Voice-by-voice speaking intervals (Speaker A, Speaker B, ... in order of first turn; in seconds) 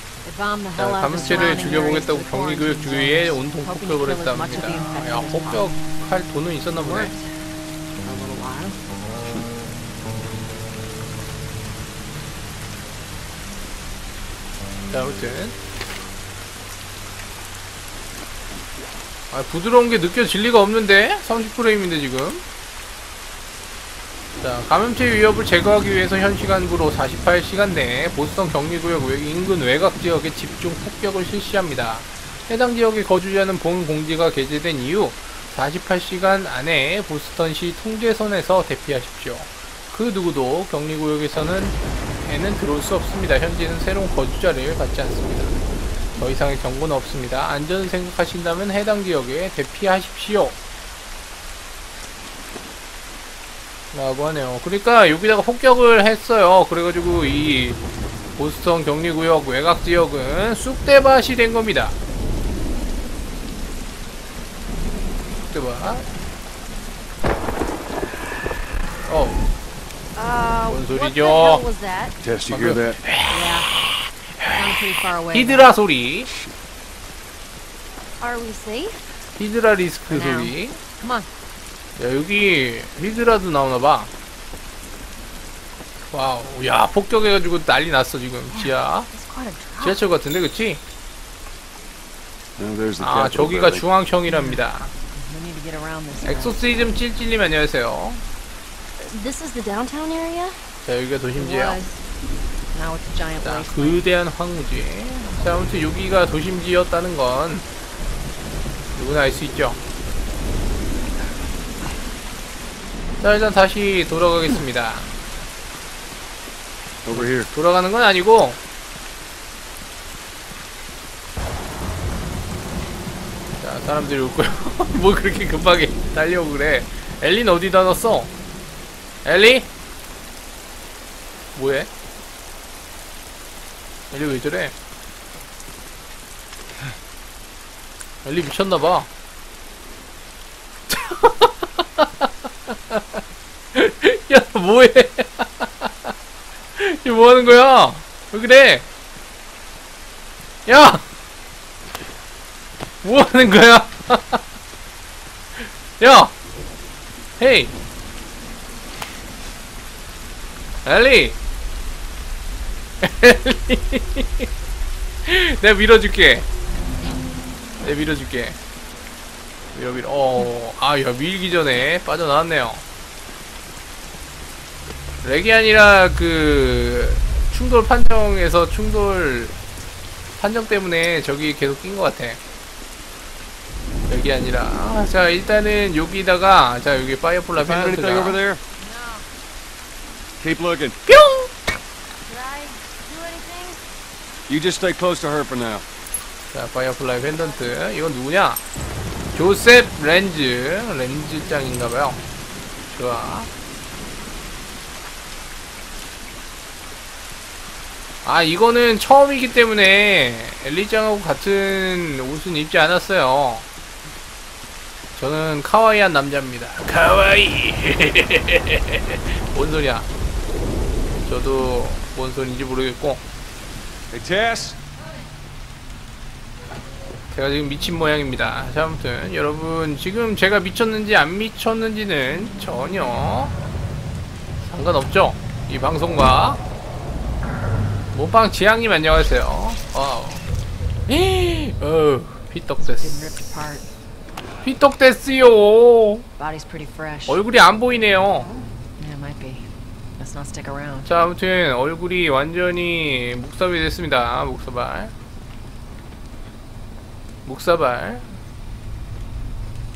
Speaker A: 0.2-5.7, 8.0-8.8, 73.3-73.7, 74.5-75.7, 80.1-81.3, 94.3-97.0, 101.4-101.9, 102.7-104.1, 242.8-243.9, 246.4-247.4, 249.0-251.1
Speaker B: 0.8-7.1, 14.9-15.6, 19.3-22.4, 24.4-45.5, 46.2-50.5, 53.9-57.8, 58.4-62.0, 65.5-66.0, 69.1-69.4, 70.7-71.6, 72.5-73.5, 74.4-74.6, 75.3-76.3, 79.4-80.8, 82.0-84.1, 86.1-89.1, 89.8-90.8, 93.0-94.9, 96.2-98.2, 100.8-101.8, 103.4-107.6, 109.0-109.8, 113.2-115.1, 117.1-118.6, 123.6-128.3, 129.2-129.7, 131.6-131.9, 134.1-134.7, 138.2-139.1, 140.9-143.2, 143.7-146.1, 146.8-148.8, 150.7-151.0, 153.0-154.4, 156.0-156.3, 157.4-157.7, 160.8-161.4, 163.0-164.5, 165.3-166.4, 167.8-168.6, 169.7-172.8, 175.2-179.5, 180.4-182.4, 184.1-188.4, 191.1-191.5, 196.5-198.6, 199.3-202.2, 202.9-203.5, 208.2-213.6, 215.2-220.1, 221.3-223.2, 227.3-233.5, 234.7-236.6, 238.1-240.4, 241.1-243.4, 244.6-246.2, 247.3-248.5, 251.1-255.1, 257.4-258.2
Speaker C: 1.1-2.1, 6.8-7.3, 70.1-72.2, 78.2-79.0, 88.5-90.0, 99.0-100.7, 188.8-189.2, 192.3-193.8
Speaker D: 72.2-73.0, 76.3-76.5, 92.6-93.9, 117.0-117.5, 187.6-188.6, 190.4-191.0, 194.5-195.8, 224.1-224.8